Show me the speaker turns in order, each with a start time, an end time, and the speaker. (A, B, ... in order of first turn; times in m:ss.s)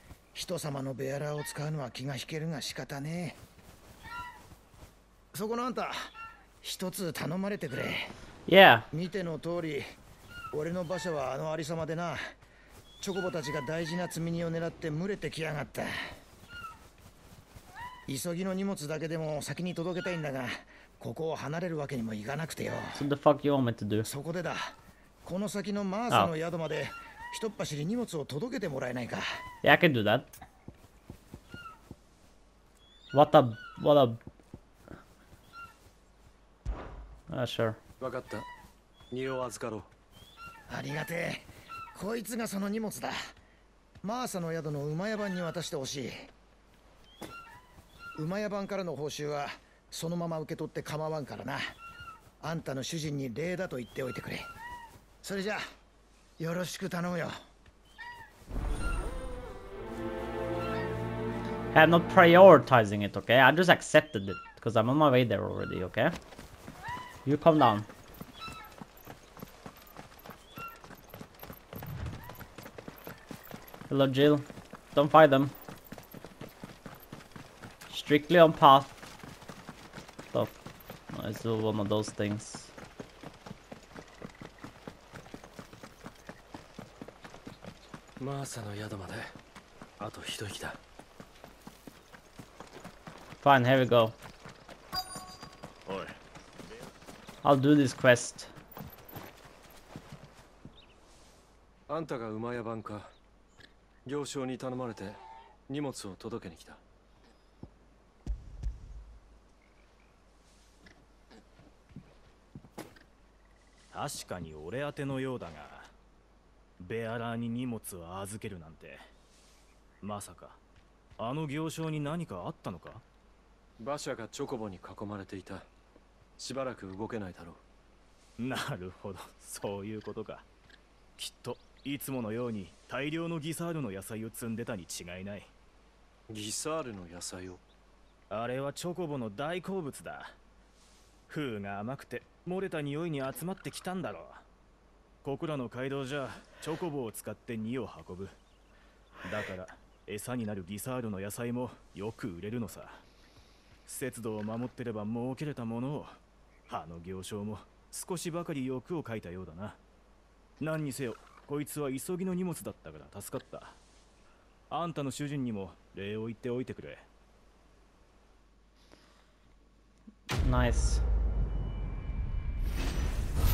0:00.3-0:03.4 A
0:05.3-0:08.1 A
0:08.5-0:08.9 B
0:08.9-0:09.8 A
0:10.5-0:12.3 A
0:13.0-0:15.9 A
0:18.1-0:23.0 A
0:23.0-0:24.1 B
0:24.0-0:29.2 A
0:29.6-0:30.3 B
0:33.1-0:34.2 B
0:37.3-0:37.8 B
0:38.0-0:38.4 C
0:39.1-0:39.9 C
0:40.7-0:43.2 A
0:44.0-0:46.3 A
0:48.1-0:51.6 A
0:52.4-0:54.5 A
0:55.2-0:55.6 A
0:56.4-0:57.3 A
1:01.7-1:06.1 B
1:07.2-1:07.9 B
1:13.9-1:15.5 B
1:17.9-1:18.9 B
1:21.1-1:22.7 B
1:28.2-1:29.3 C
1:30.0-1:30.8 C
1:33.4-1:34.1 B
1:37.4-1:38.5 B
1:41.9-1:43.1 C
1:44.0-1:46.8 C
1:53.9-1:55.9 D
1:56.8-1:59.0 D
2:00.0-2:00.6 D
2:01.2-2:03.0 D
2:03.8-2:05.7 C
2:06.4-2:07.6 C
2:08.4-2:10.4 D
2:11.2-2:15.5 D
2:16.3-2:17.6 C
2:18.3-2:20.4 D
2:21.3-2:24.4 D
2:25.2-2:28.4 D
2:29.2-2:33.0 D
2:33.8-2:39.8 D
2:40.6-2:43.8 D
2:44.7-2:47.0 D
2:50.4-2:51.0 B